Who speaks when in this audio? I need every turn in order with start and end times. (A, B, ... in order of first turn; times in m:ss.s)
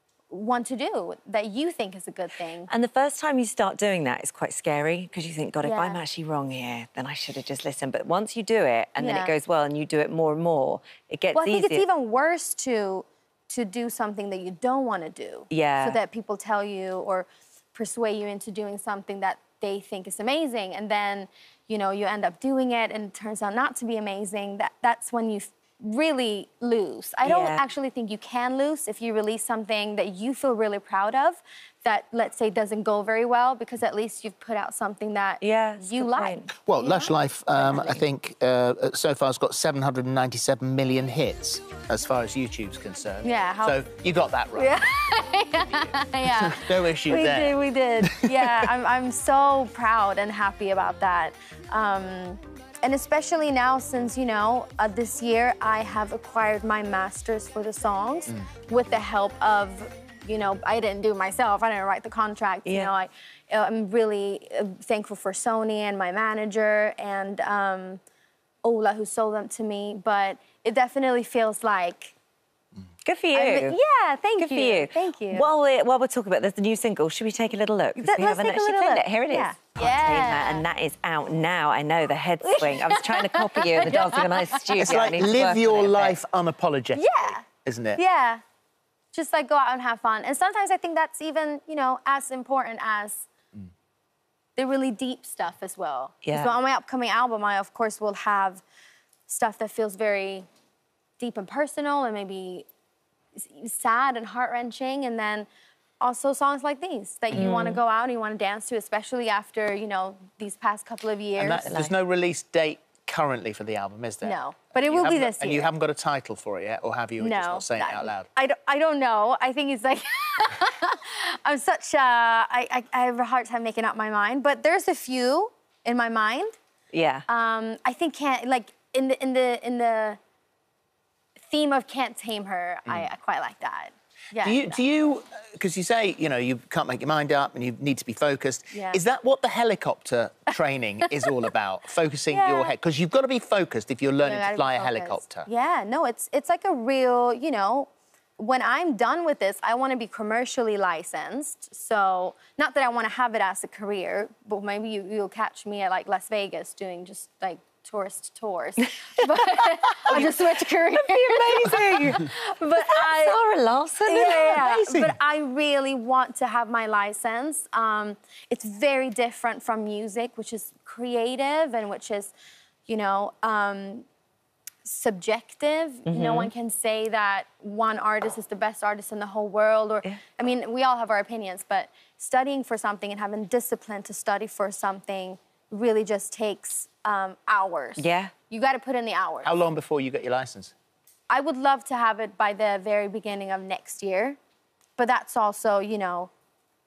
0:00.3-0:02.7 A
0:02.7-0:11.8 B
0:05.6-0:06.0 A
0:09.0-0:09.3 A
0:11.3-0:37.1 A
0:15.5-0:16.0 B
0:27.2-0:27.6 B
0:35.4-0:36.5 B
0:36.6-0:44.8 C
0:37.7-0:38.0 B
0:43.2-0:43.8 A
0:44.6-1:08.0 A
0:46.2-0:48.7 C
1:02.6-1:02.9 B
1:08.6-1:12.1 A
1:13.0-1:13.8 B
1:13.3-1:15.5 A
1:14.4-1:26.2 B
1:18.0-1:20.6 A
1:22.4-1:25.2 A
1:24.8-1:28.0 C
1:26.9-1:27.4 A
1:28.0-1:28.4 A
1:29.1-1:33.3 A
1:34.6-1:38.6 A
1:36.2-1:36.5 B
1:39.3-1:40.4 A
1:41.2-1:42.6 A
1:43.4-1:45.5 A
1:46.0-1:51.9 A
1:47.3-1:47.8 B
1:51.4-1:58.3 C
1:54.2-1:55.7 A
1:57.2-2:06.5 A
2:06.9-2:07.2 B
2:07.3-2:10.2 A
2:11.5-2:14.8 A
2:14.4-2:25.5 C
2:18.7-2:19.0 A
2:22.3-2:22.7 A
2:24.2-2:43.4 A
2:40.0-2:44.9 B
2:44.0-2:52.3 A
2:44.9-2:45.1 C
2:52.9-2:54.0 A
2:54.8-3:09.5 A
2:56.1-2:56.5 B
3:08.0-3:08.3 B
3:09.4-3:10.7 C
3:11.3-3:14.4 A
3:15.0-3:16.3 A